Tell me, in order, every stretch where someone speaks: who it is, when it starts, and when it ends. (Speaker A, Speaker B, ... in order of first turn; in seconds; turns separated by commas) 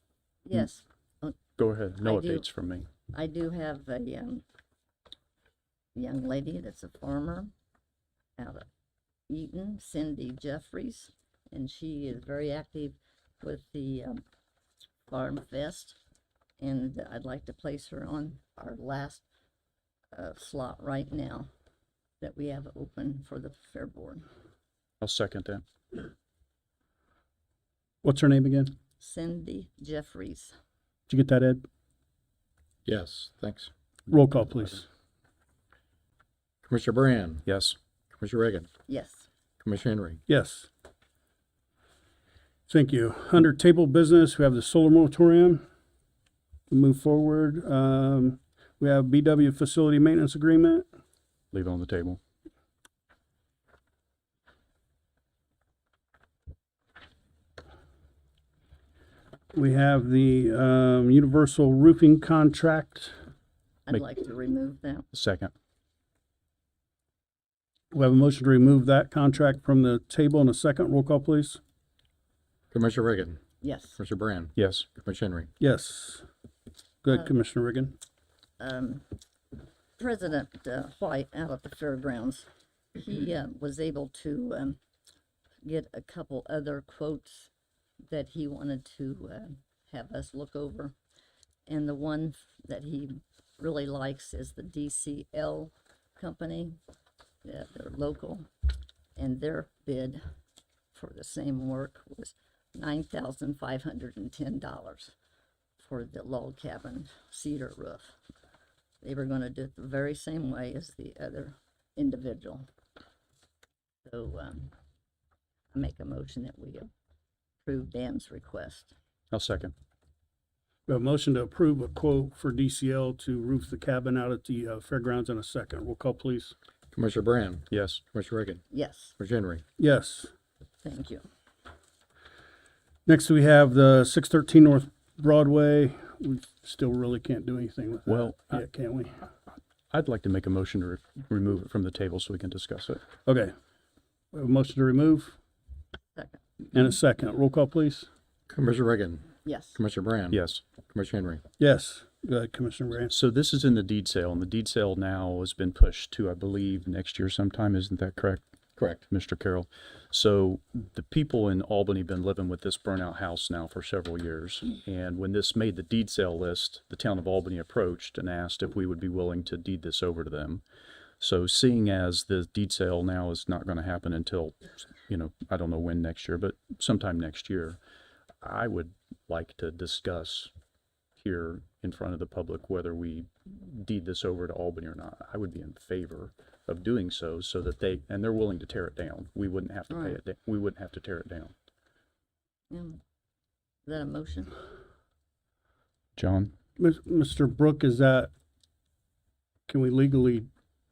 Speaker A: 0.5-1.4, Speaker B: 1.6-2.9, Speaker A: 2.0-2.5, Speaker A: 3.1-4.4, Speaker A: 6.0-7.5, Speaker A: 8.4-8.7, Speaker A: 9.3-14.2, Speaker A: 15.1-16.0, Speaker A: 16.6-19.2, Speaker A: 20.1-21.5, Speaker A: 22.2-24.3, Speaker B: 25.0-25.6, Speaker C: 28.0-28.7, Speaker A: 29.0-30.6, Speaker C: 31.1-31.6, Speaker D: 32.9-33.7, Speaker C: 34.1-34.9, Speaker D: 36.6-37.5, Speaker B: 37.5-37.8, Speaker D: 38.1-38.7, Speaker A: 38.9-39.3, Speaker D: 39.6-40.2, Speaker C: 40.3-40.7, Speaker C: 42.7-45.6, Speaker C: 46.7-50.9, Speaker B: 51.5-52.2, Speaker C: 59.5-63.1, Speaker A: 63.9-65.1, Speaker B: 65.1-65.5, Speaker C: 67.9-71.6, Speaker D: 72.7-73.4, Speaker A: 73.6-74.0, Speaker D: 74.0-75.5, Speaker B: 74.6-74.9, Speaker C: 75.6-76.2, Speaker C: 77.0-78.0, Speaker A: 78.6-79.1, Speaker A: 80.0-84.8, Speaker A: 85.6-87.5, Speaker A: 88.0-91.0, Speaker A: 91.7-96.8, Speaker A: 97.4-98.5, Speaker A: 99.2-100.2, Speaker A: 100.9-105.2, Speaker A: 105.8-108.2, Speaker A: 109.0-112.7, Speaker A: 114.0-114.7, Speaker A: 115.7-116.9, Speaker A: 117.6-118.9, Speaker B: 119.3-119.7, Speaker C: 120.9-126.5, Speaker D: 126.9-128.6, Speaker B: 127.7-128.0, Speaker A: 128.7-129.1, Speaker D: 129.2-129.6, Speaker C: 129.8-130.3, Speaker A: 130.8-131.2, Speaker C: 133.1-139.2, Speaker B: 138.1-138.6, Speaker B: 139.9-143.0, Speaker C: 143.2-143.5, Speaker C: 144.3-145.4, Speaker A: 146.2-146.4, Speaker C: 146.7-148.1, Speaker D: 148.5-151.4, Speaker A: 149.4-149.8, Speaker B: 150.3-150.6, Speaker C: 151.6-153.2, Speaker B: 153.1-158.4, Speaker D: 158.8-159.0, Speaker B: 159.1-170.6, Speaker B: 171.2-177.8, Speaker B: 178.4-180.5, Speaker B: 181.2-191.5, Speaker A: 189.9-190.2, Speaker A: 192.7-193.0, Speaker A: 193.9-194.6, Speaker B: 196.2-196.5, Speaker C: 196.8-198.3, Speaker C: 199.7-200.5